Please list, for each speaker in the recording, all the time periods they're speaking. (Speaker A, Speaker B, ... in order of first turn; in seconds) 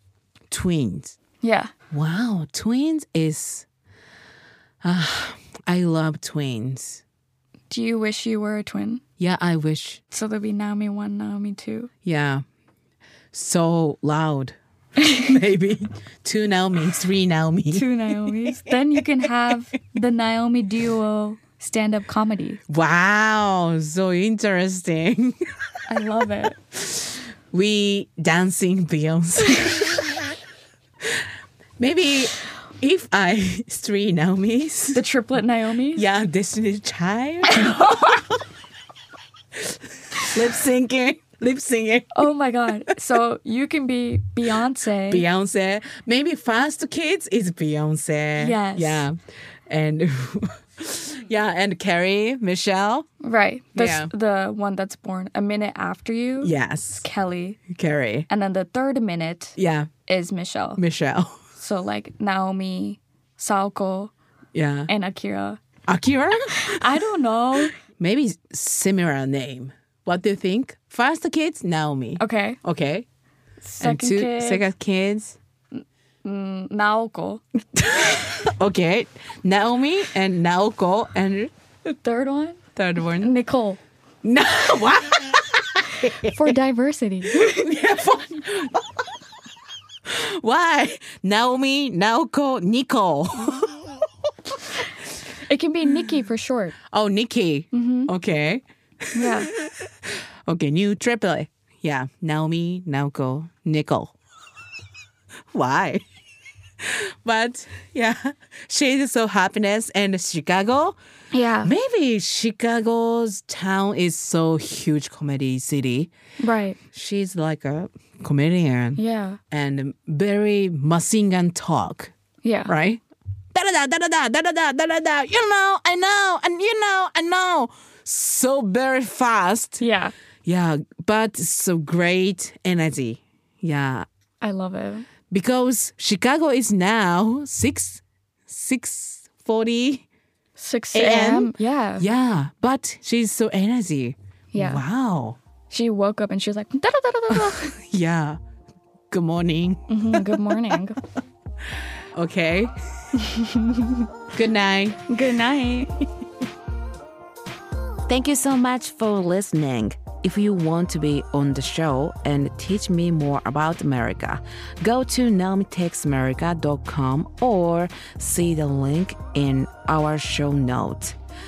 Speaker A: 0.5-1.2, 1.9-3.6, 4.8-7.0, 9.2-10.0, 12.0-12.4, 13.3-14.6, 15.1-18.6, 22.7-25.4, 26.9-30.0, 31.8-35.0, 35.9-38.1, 40.2-42.1, 45.1-49.1, 49.7-53.1, 53.7-54.1, 56.4-57.1, 57.7-58.3, 59.6-59.9, 60.8-61.4, 64.5-64.9, 65.9-66.8, 67.8-73.0, 73.8-75.4, 77.7-81.5, 82.8-83.3, 84.2-86.5, 87.3-88.8, 90.0-93.8, 96.9-98.6, 99.1-99.7, 100.5-104.1, 105.5-106.0, 106.8-111.0, 111.6-116.1, 116.9-119.0, 119.5-122.1, 122.7-123.0, 123.5-129.8, 130.4-134.1, 135.3-140.1, 140.9-145.4, 147.3-148.4, 149.1-150.7, 152.1-152.7, 154.3-155.0, 158.1-171.2
Speaker B: 1.4-1.7, 7.7-9.0, 10.1-11.9, 17.7-22.6, 25.9-26.6, 34.9-36.0, 37.5-38.2, 42.1-45.2, 48.4-49.1, 53.2-57.6, 58.3-59.5, 60.1-60.8, 61.6-64.1, 64.9-65.6, 66.6-67.8, 72.2-72.6, 73.6-74.7, 76.2-77.4, 81.8-83.8, 86.2-87.7, 95.5-96.7, 97.7-98.1, 99.1-99.5, 111.3-111.7, 116.4-116.8, 119.0-119.4, 122.4-122.7, 129.8-130.1, 134.4-135.1, 140.6-142.1, 144.5-144.8, 145.7-147.7, 149.9-151.0, 153.2-153.6, 155.1-156.0